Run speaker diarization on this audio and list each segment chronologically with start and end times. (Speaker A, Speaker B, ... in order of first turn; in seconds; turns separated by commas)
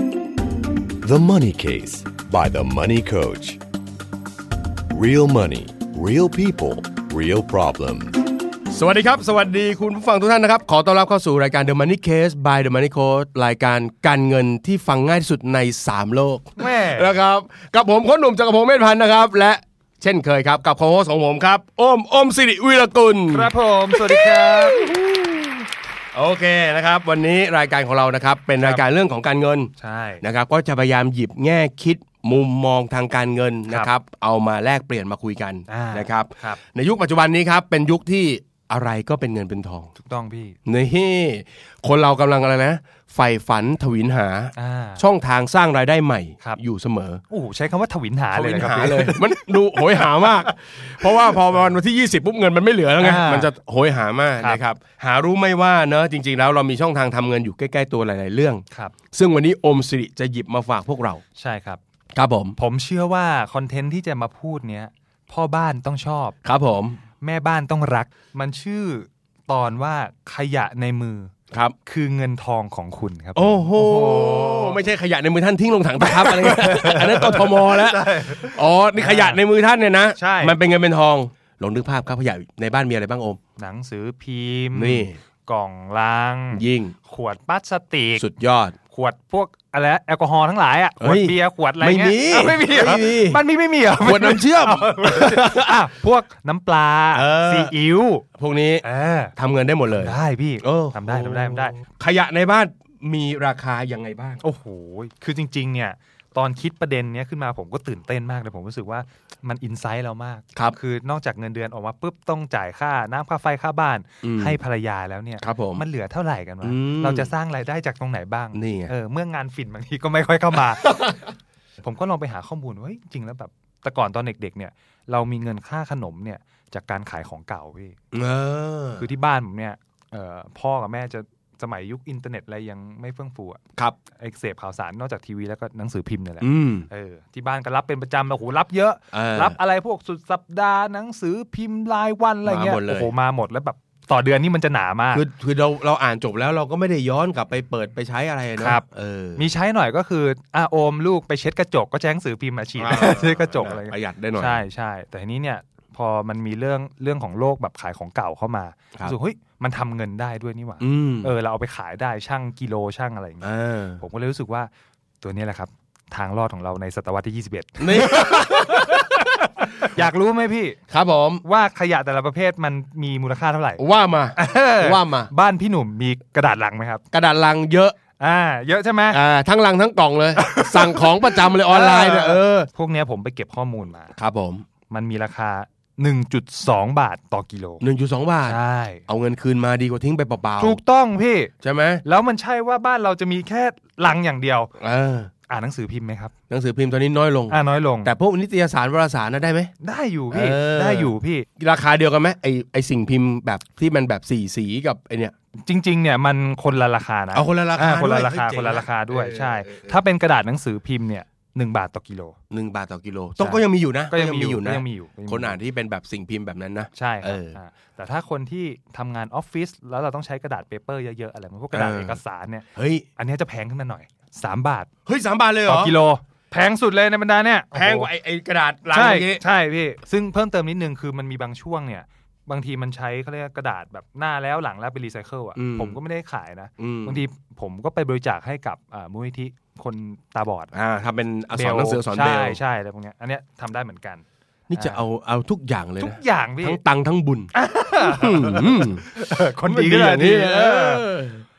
Speaker A: 1.0-3.6, Speaker A: 4.9-8.2, Speaker B: 8.7-25.5, Speaker C: 16.6-17.2, Speaker C: 23.3-24.9, Speaker B: 26.1-39.9, Speaker C: 29.8-30.2, Speaker C: 35.7-36.6, Speaker C: 40.0-40.6, Speaker B: 40.7-47.2, Speaker C: 44.5-45.0, Speaker C: 47.3-50.3, Speaker B: 48.3-61.2, Speaker C: 51.0-51.3, Speaker C: 53.0-53.5, Speaker C: 61.4-61.8, Speaker B: 62.1-62.6, Speaker C: 62.6-66.4, Speaker B: 66.4-67.0, Speaker C: 67.2-71.3, Speaker C: 71.8-74.8, Speaker B: 73.4-83.4, Speaker C: 76.0-79.4, Speaker C: 80.2-80.6, Speaker C: 83.6-88.3, Speaker B: 84.8-85.2, Speaker B: 86.5-87.0, Speaker B: 88.2-88.8, Speaker C: 88.9-98.3, Speaker B: 91.0-93.4, Speaker B: 94.0-95.8, Speaker B: 97.1-97.7, Speaker B: 98.4-104.4, Speaker C: 98.8-99.3, Speaker C: 99.9-101.8, Speaker C: 104.4-121.2, Speaker B: 114.2-114.6, Speaker B: 115.4-115.8, Speaker B: 116.6-117.3, Speaker B: 118.5-118.9, Speaker C: 121.8-128.0, Speaker B: 128.1-129.1, Speaker C: 129.0-133.6, Speaker C: 134.1-145.2, Speaker B: 136.4-136.9, Speaker B: 139.1-139.6, Speaker B: 142.4-143.1, Speaker B: 145.1-149.5, Speaker C: 148.6-148.8, Speaker C: 149.4-170.8, Speaker B: 152.8-154.6, Speaker B: 160.8-161.3, Speaker B: 163.4-164.0, Speaker B: 167.8-169.2, Speaker B: 170.9-171.4, Speaker C: 171.4-173.8, Speaker B: 173.8-175.3, Speaker C: 174.4-177.0, Speaker B: 177.1-178.0, Speaker C: 178.2-179.2, Speaker B: 179.1-182.7, Speaker C: 180.4-184.2, Speaker B: 184.2-184.7, Speaker C: 184.9-187.9, Speaker B: 187.8-190.8, Speaker C: 188.4-189.0, Speaker C: 190.6-191.5, Speaker B: 191.6-192.0, Speaker C: 192.0-194.7, Speaker B: 194.8-195.3, Speaker C: 195.5-196.3, Speaker B: 196.5-199.7, Speaker C: 197.5-198.1, Speaker C: 199.8-201.5, Speaker B: 200.3-205.3, Speaker C: 205.6-212.4, Speaker B: 207.3-210.0, Speaker B: 212.5-217.6, Speaker C: 213.4-215.6, Speaker C: 216.9-224.9, Speaker B: 221.7-222.2, Speaker B: 222.8-223.1, Speaker B: 225.1-226.0, Speaker C: 225.7-228.1, Speaker B: 227.7-229.4, Speaker C: 228.9-240.8, Speaker B: 235.6-236.0, Speaker B: 236.8-237.2, Speaker B: 240.7-242.6, Speaker C: 241.5-245.1, Speaker B: 244.7-251.4, Speaker C: 246.0-246.8, Speaker C: 247.5-251.1